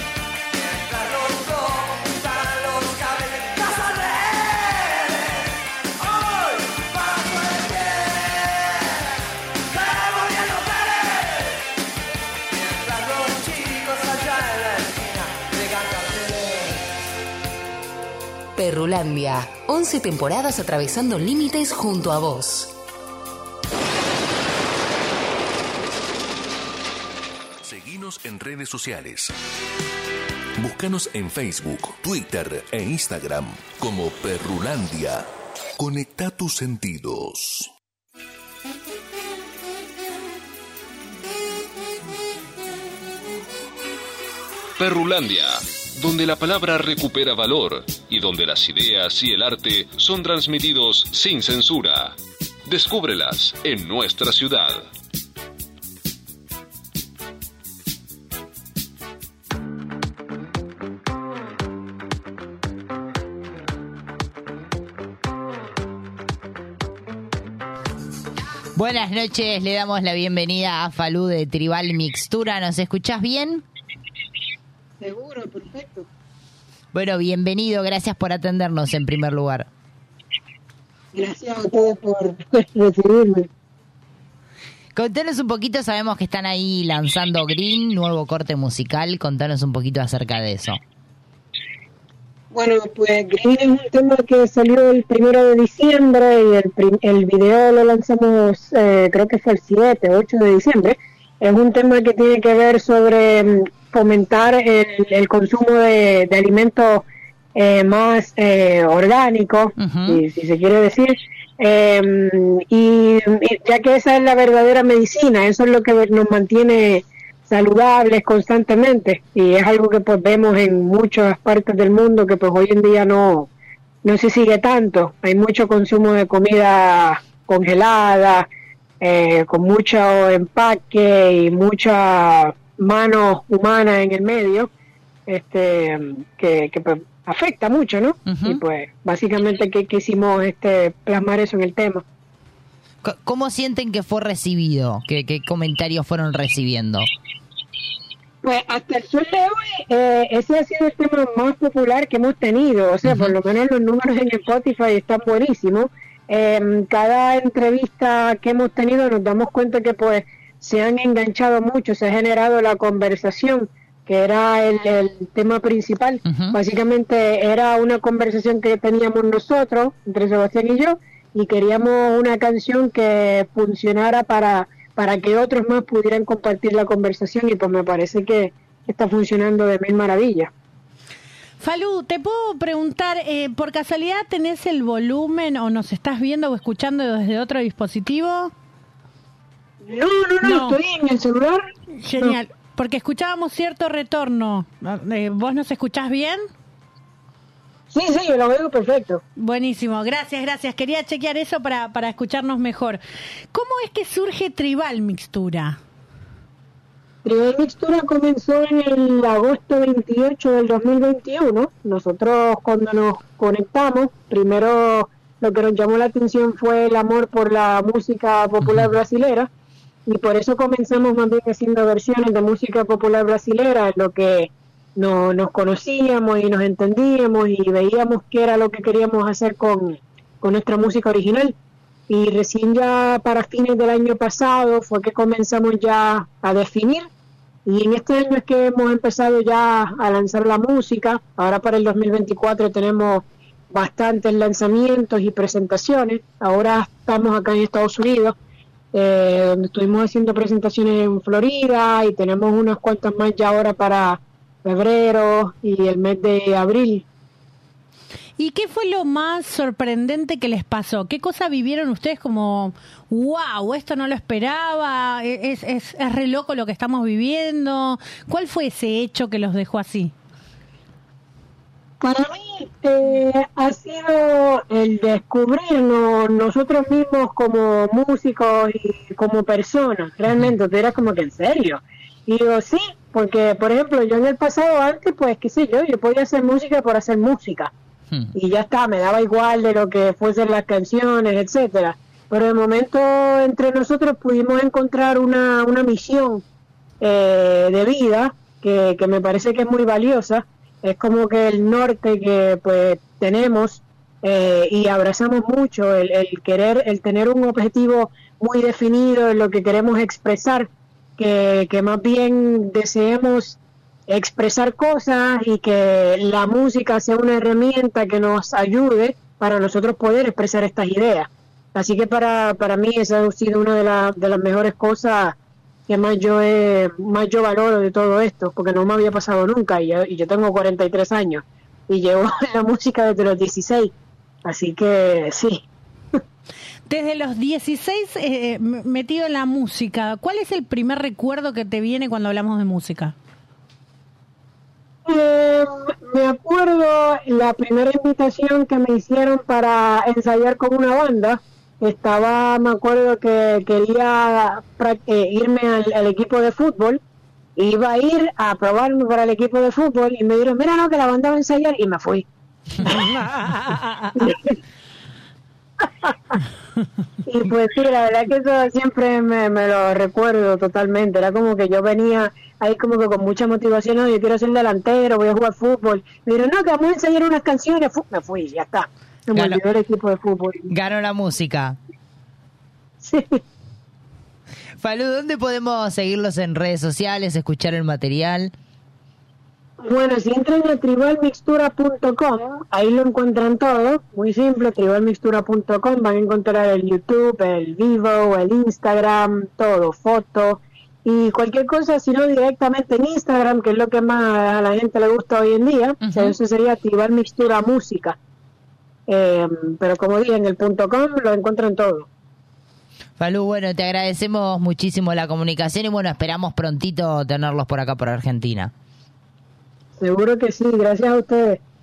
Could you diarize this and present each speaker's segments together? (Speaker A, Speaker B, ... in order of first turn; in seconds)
Speaker A: 0.6-9.1, 9.7-11.6, 12.5-16.8
Speaker B: 18.6-22.8
Speaker C: 27.6-29.3, 30.6-37.7
Speaker D: 44.8-54.9
Speaker E: 68.8-73.7, 76.9-79.7, 85.0-90.8, 109.8-110.2, 138.3-138.6, 143.0-147.1, 153.0-153.4, 166.2-166.6, 218.6-218.9, 379.3-379.6, 380.7-381.8, 384.8-388.5, 406.0-406.4, 413.2-418.7
Speaker F: 75.0-76.1, 81.1-83.5, 92.5-123.5, 124.0-128.5, 129.0-134.7, 135.3-142.0, 148.4-180.5, 189.8-191.7, 197.9-199.2, 207.2-219.5, 220.1-231.6, 232.1-237.1, 237.7-248.3, 248.9-257.1, 272.0-287.7, 288.4-296.4, 297.0-313.6, 314.1-325.4, 325.9-333.9, 334.4-335.6, 345.1-357.0, 357.6-362.3, 367.3-380.7, 383.0-383.4, 389.8-408.2, 409.1-412.1, 420.0-421.6
Speaker G: 181.6-188.5, 190.4-190.8, 192.0-196.5, 199.4-203.0, 203.5-205.8, 258.4-270.1, 336.9-343.1, 362.8-364.3